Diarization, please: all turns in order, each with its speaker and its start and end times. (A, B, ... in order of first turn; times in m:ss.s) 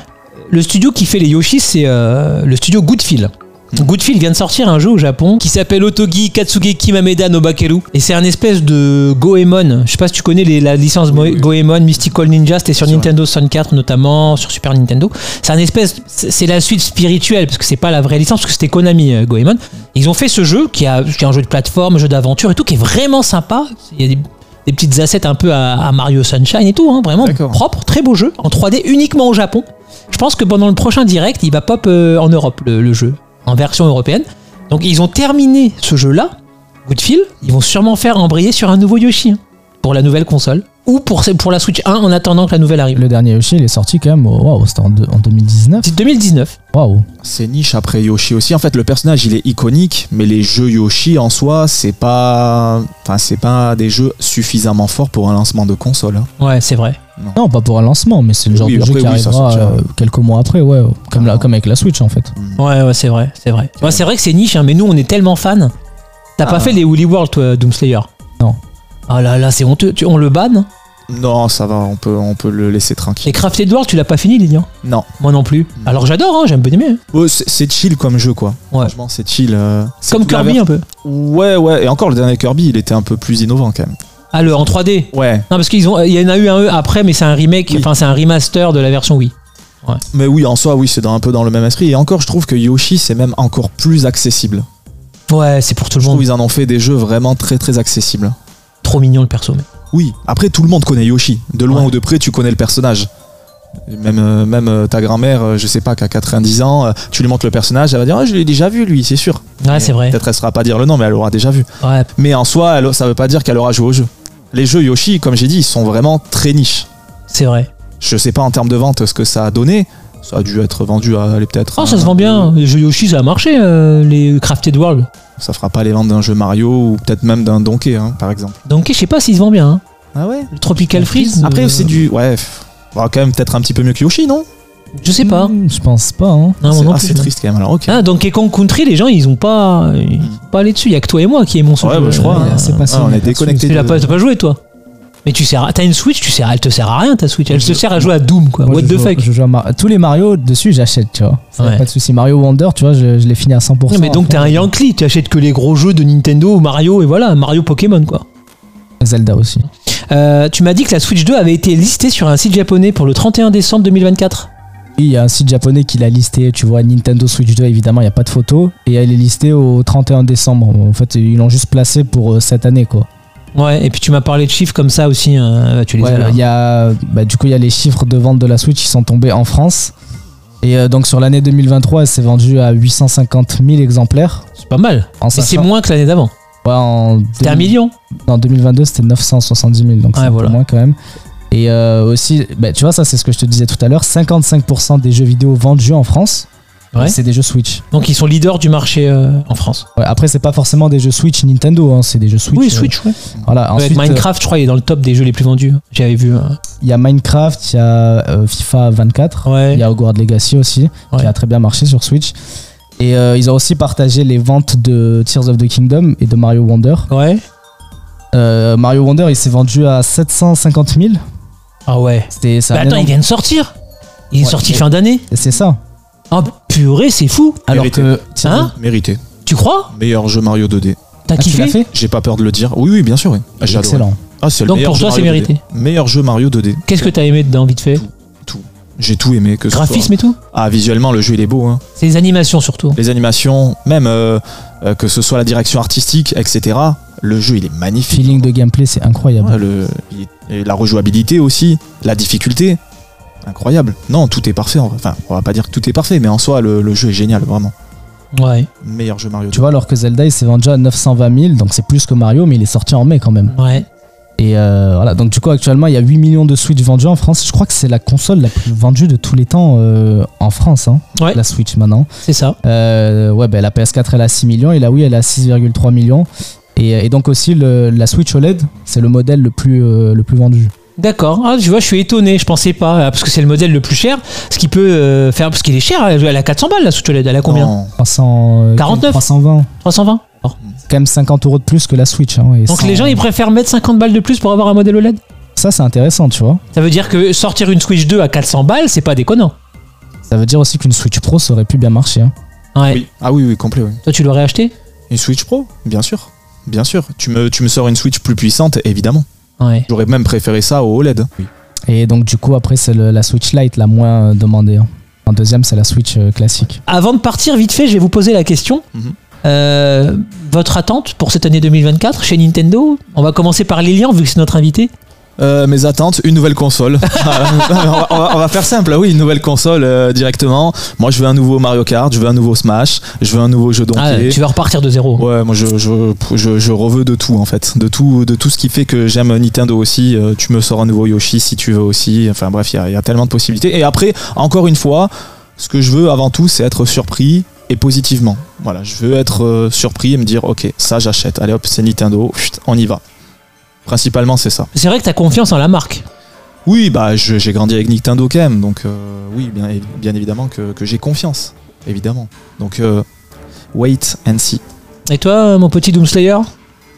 0:00.5-0:36.3 A
0:11.1-0:11.5 B
0:12.8-0:13.1 B
0:27.2-0:27.6 B
0:36.9-0:43.0 A
0:42.9-0:45.9 C
0:45.8-0:46.6 A
0:46.7-0:47.1 C
0:47.2-0:56.3 B
0:56.4-0:57.0 A
0:57.4-1:02.3 C
0:58.5-0:59.8 B
1:01.1-1:01.5 B
1:02.4-1:02.6 B
1:02.6-1:05.7 A
1:06.4-1:08.1 A
1:06.4-1:06.8 B
1:09.1-1:10.7 A
1:11.1-1:13.4 B
1:13.2-1:17.0 A
1:14.8-1:15.1 B
1:17.1-1:25.5 B
1:20.1-1:20.8 A
1:24.3-1:30.0 A
1:30.1-1:34.7 B
1:35.3-1:36.3 A
1:36.0-1:38.4 B
1:38.8-1:39.7 A
1:39.9-1:43.1 B
1:43.9-1:56.9 B
1:49.6-1:50.2 A
1:51.8-1:52.1 A
1:57.3-1:57.7 A
1:58.0-2:02.5 B
2:01.8-2:05.1 A
2:05.4-2:08.6 B
2:08.7-2:09.8 A
2:10.2-2:10.5 B
2:10.5-2:12.0 A
2:10.9-2:11.6 C
2:11.4-2:14.5 B
2:15.0-2:15.5 A
2:15.2-2:16.6 C
2:16.6-2:17.3 A
2:16.7-2:18.1 B
2:17.9-2:22.9 A
2:21.8-2:24.1 B
2:22.3-2:24.0 C
2:23.7-2:24.6 A
2:25.2-2:29.2 A
2:28.6-2:34.7 C
2:31.6-2:31.9 A
2:33.9-2:38.2 A
2:39.0-2:39.7 C
2:40.1-2:44.5 A
2:45.0-2:53.1 C
2:53.6-2:56.4 A
2:56.0-2:59.9 C
3:00.6-3:04.5 C
3:04.6-3:06.3 A
3:05.2-3:05.7 C
3:06.6-3:11.0 C
3:07.4-3:07.9 A
3:10.2-3:10.6 A
3:11.5-3:17.8 C
3:17.9-3:19.8 A
3:20.0-3:24.3 C
3:22.5-3:23.2 A
3:23.8-3:26.6 A
3:26.8-3:32.4 C
3:29.5-3:29.8 A
3:33.0-3:37.1 C
3:37.1-3:37.4 A
3:38.3-3:41.2 C
3:41.9-3:43.7 A
3:42.3-3:43.1 C
3:44.3-3:45.2 A
3:44.4-3:45.8 C
3:46.3-3:47.6 A
3:47.7-3:48.7 C
3:47.7-3:49.2 B
3:48.4-3:48.7 A
3:49.5-3:49.9 A
3:49.9-3:51.0 B
3:51.3-3:51.8 A
3:51.4-3:51.9 C
3:51.9-3:57.1 B
3:53.6-3:54.2 C
3:54.7-3:55.6 A
3:56.9-3:58.0 A
3:58.0-4:01.8 B
3:59.7-4:00.4 A
4:02.0-4:03.0 A
4:03.0-4:08.5 B
4:08.1-4:09.6 C
4:09.4-4:12.8 B
4:13.4-4:17.7 B
4:18.4-4:18.7 A
4:18.8-4:19.7 B
4:19.5-4:23.6 C
4:23.5-4:23.9 A
4:24.4-4:32.1 C
4:32.2-4:32.6 A
4:32.6-4:40.7 C
4:41.0-4:47.7 A
4:47.5-4:47.9 B
4:48.0-4:49.7 C
4:48.8-4:49.2 A
4:49.8-4:50.6 A
4:50.9-4:53.2 C
4:52.7-4:55.2 A
4:55.6-4:56.6 C
4:56.7-4:59.6 A
5:00.3-5:02.3 C
5:02.8-5:03.0 A
5:02.9-5:04.0 B
5:04.1-5:04.7 A
5:05.1-5:09.3 B
5:09.6-5:09.9 A
5:09.9-5:11.5 B
5:11.9-5:16.8 C
5:16.9-5:18.8 A
5:19.4-5:24.9 A
5:25.4-5:34.4 B
5:27.1-5:28.0 A
5:34.0-5:35.3 A
5:35.2-5:53.0 B
5:53.9-5:54.7 B
5:54.7-5:56.0 A
5:56.7-6:03.1 B
6:03.7-6:04.6 B
6:05.1-6:06.5 A